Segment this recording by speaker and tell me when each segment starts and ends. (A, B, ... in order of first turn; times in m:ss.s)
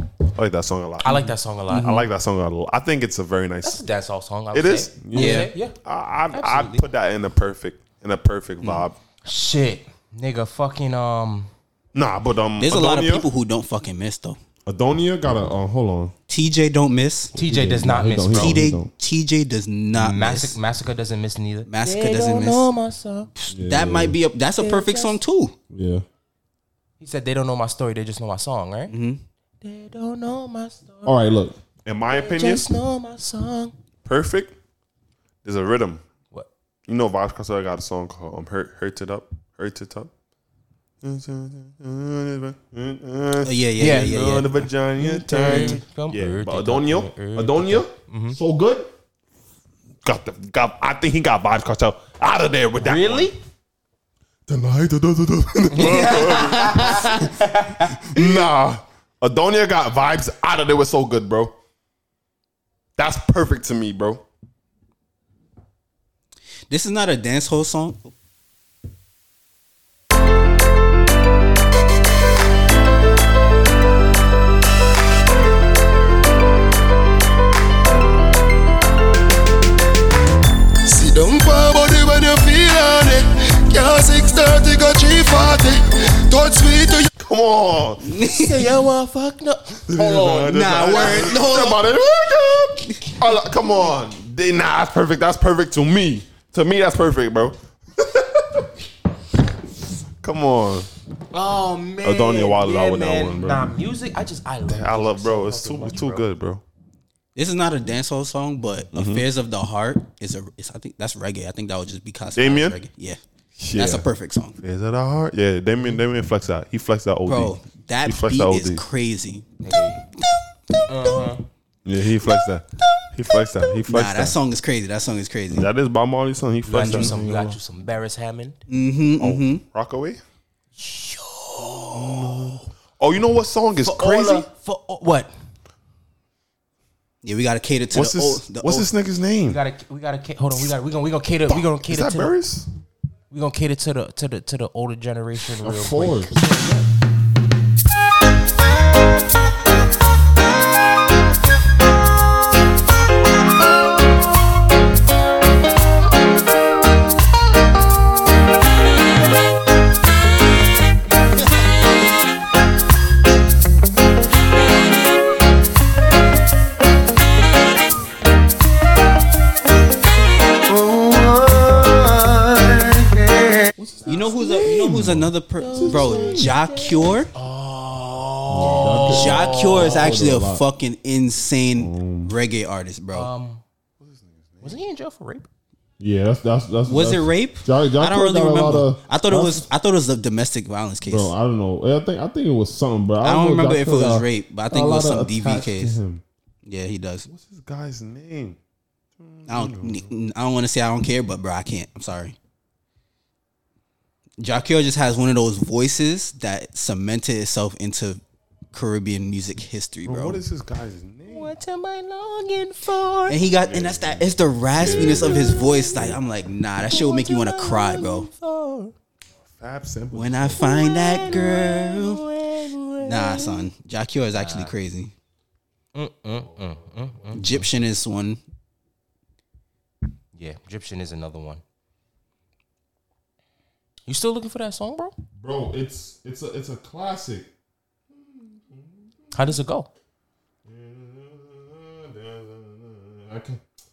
0:00.3-0:03.8 A
0:01.0-0:02.0 B
0:03.6-0:05.8 B
0:04.5-0:09.0 A
0:05.1-0:05.5 C
0:06.3-0:06.9 B
0:08.6-0:11.5 B
0:11.9-0:13.3 A
0:12.6-0:14.4 C
0:14.6-0:16.1 A
0:16.3-0:17.3 C
0:17.3-0:18.9 A
0:17.3-0:18.6 B
0:18.3-0:20.6 C
0:20.0-0:23.3 B
0:21.7-0:22.7 C
0:23.4-0:25.5 C
0:23.5-0:24.2 A
0:24.6-0:25.2 B
0:25.7-0:26.0 A
0:27.0-0:28.9 B
0:28.9-0:29.2 C
0:29.6-0:31.2 B
0:31.0-0:32.7 A
0:32.1-0:33.7 B
0:34.0-0:34.6 A
0:35.4-0:36.0 A
0:36.9-0:40.1 A
0:41.0-0:48.9 A
0:43.4-0:45.8 C
0:43.8-0:44.3 B
0:45.0-0:48.4 B
0:50.0-0:53.3 A
0:52.8-0:53.4 B
0:54.5-0:57.3 A
0:55.7-0:58.0 B
0:55.9-0:57.0 C
0:57.8-1:01.5 A
1:03.0-1:04.2 A
1:06.7-1:08.1 C
1:20.9-1:27.0 D
1:27.2-1:28.1 A
1:28.1-1:28.5 C
1:28.4-1:31.4 B
1:29.9-1:38.7 A
1:30.5-1:31.9 C
1:40.2-1:40.9 A
1:41.3-1:46.2 B
1:42.0-1:43.8 A
1:44.6-1:46.6 A
1:47.3-1:53.2 C
1:48.9-1:49.2 A
1:52.4-1:52.8 A
1:53.6-1:54.1 A
1:53.7-1:54.6 C
1:54.6-1:58.8 A
1:57.2-1:59.4 C
1:59.6-2:00.0 B
2:00.9-2:01.4 B
2:01.8-2:04.4 A
2:03.8-2:05.7 C
2:05.5-2:07.6 A
2:06.6-2:08.6 B
2:06.8-2:07.2 C
2:08.7-2:09.6 C
2:09.2-2:10.2 A
2:10.8-2:12.3 B
2:11.9-2:14.5 A
2:12.0-2:12.3 C
2:13.8-2:15.3 B
2:17.2-2:18.9 C
2:17.9-2:19.6 A
2:19.4-2:22.3 B
2:21.5-2:22.7 A
2:23.3-2:26.3 B
2:25.6-2:26.8 A
2:53.8-2:56.5 A
2:54.1-2:57.3 C
2:55.6-3:00.1 B
2:58.5-3:00.6 A
2:58.8-3:03.3 C
3:01.7-3:02.3 A
3:03.1-3:03.6 B
3:04.0-3:04.8 A
3:04.6-3:05.5 B
3:06.0-3:09.7 A
3:06.8-3:11.3 C
3:11.0-3:16.2 A
3:13.2-3:16.0 C
3:16.6-3:17.3 C
3:17.3-3:18.6 A
3:19.2-3:20.1 A
3:19.5-3:22.4 C
3:24.4-3:28.2 C
3:28.7-3:30.4 C
3:30.0-3:31.5 A
3:31.3-3:33.4 B
3:33.3-3:38.3 C
3:33.5-3:36.2 A
3:34.9-3:36.1 B
3:36.8-3:38.9 B
3:39.5-3:40.7 A
3:40.1-3:42.2 C
3:40.6-3:43.7 B
3:43.0-3:45.1 C
3:44.4-3:44.7 B
3:45.9-3:47.6 B
3:46.5-3:47.4 A
3:47.3-3:48.4 C
3:50.3-3:51.6 B
3:54.0-3:55.1 B
3:55.4-3:57.5 A
3:58.2-3:59.0 A
3:59.3-3:59.9 B
4:00.6-4:03.6 A